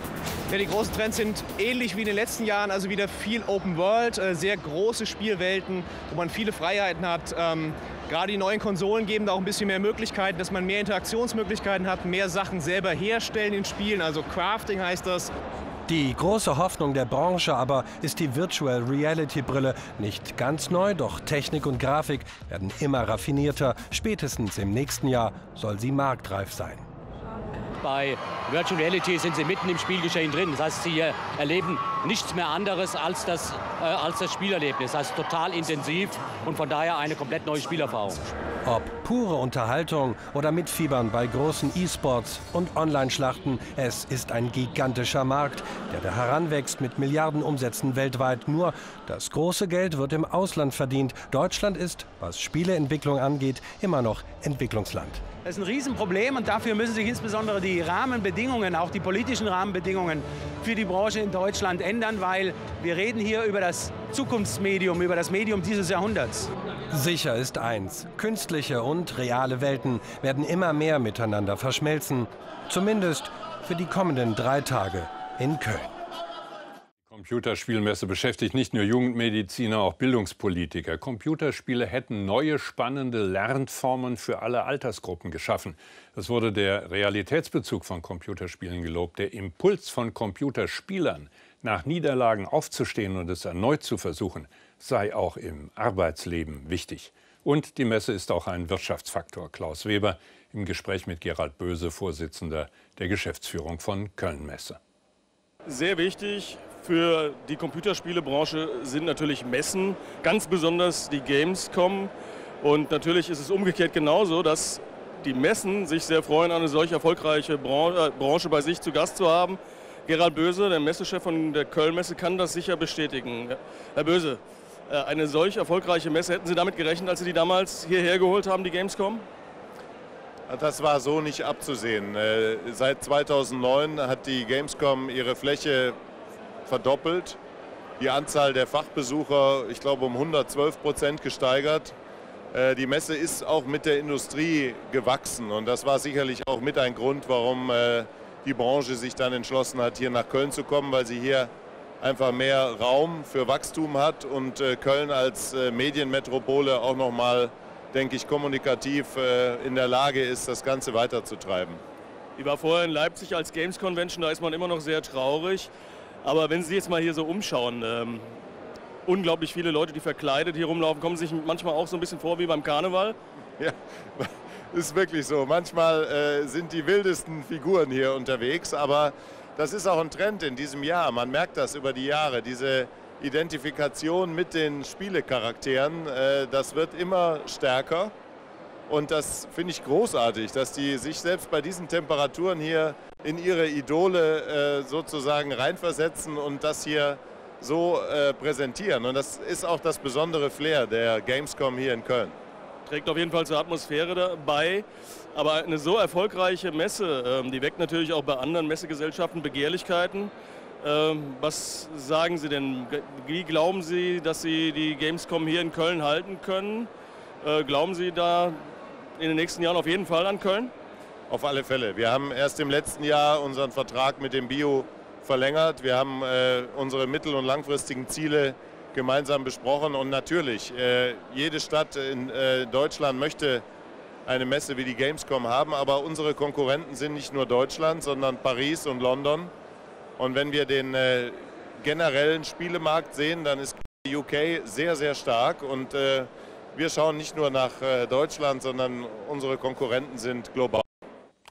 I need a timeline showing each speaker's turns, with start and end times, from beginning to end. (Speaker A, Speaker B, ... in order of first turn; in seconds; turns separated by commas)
Speaker A: 0.5-15.3, Speaker B: 15.9-26.9, Speaker C: 27.8-38.2, Speaker B: 38.6-55.3, Speaker D: 55.4-66.5, Speaker B: 66.9-75.9, Speaker E: 77.1-104.8, Speaker F: 105.7-112.1, Speaker F: 112.6-129.2, Speaker G: 130.5-136.0, Speaker G: 136.6-137.4, Speaker G: 138.0-141.9, Speaker G: 142.5-161.8, Speaker F: 162.4-165.7, Speaker F: 166.2-168.3, Speaker F: 169.1-173.2, Speaker G: 173.6-188.1, Speaker G: 188.9-202.3, Speaker F: 202.9-216.9, Speaker F: 217.4-220.7, Speaker G: 221.3-233.6, Speaker G: 234.2-239.5, Speaker G: 240.2-250.8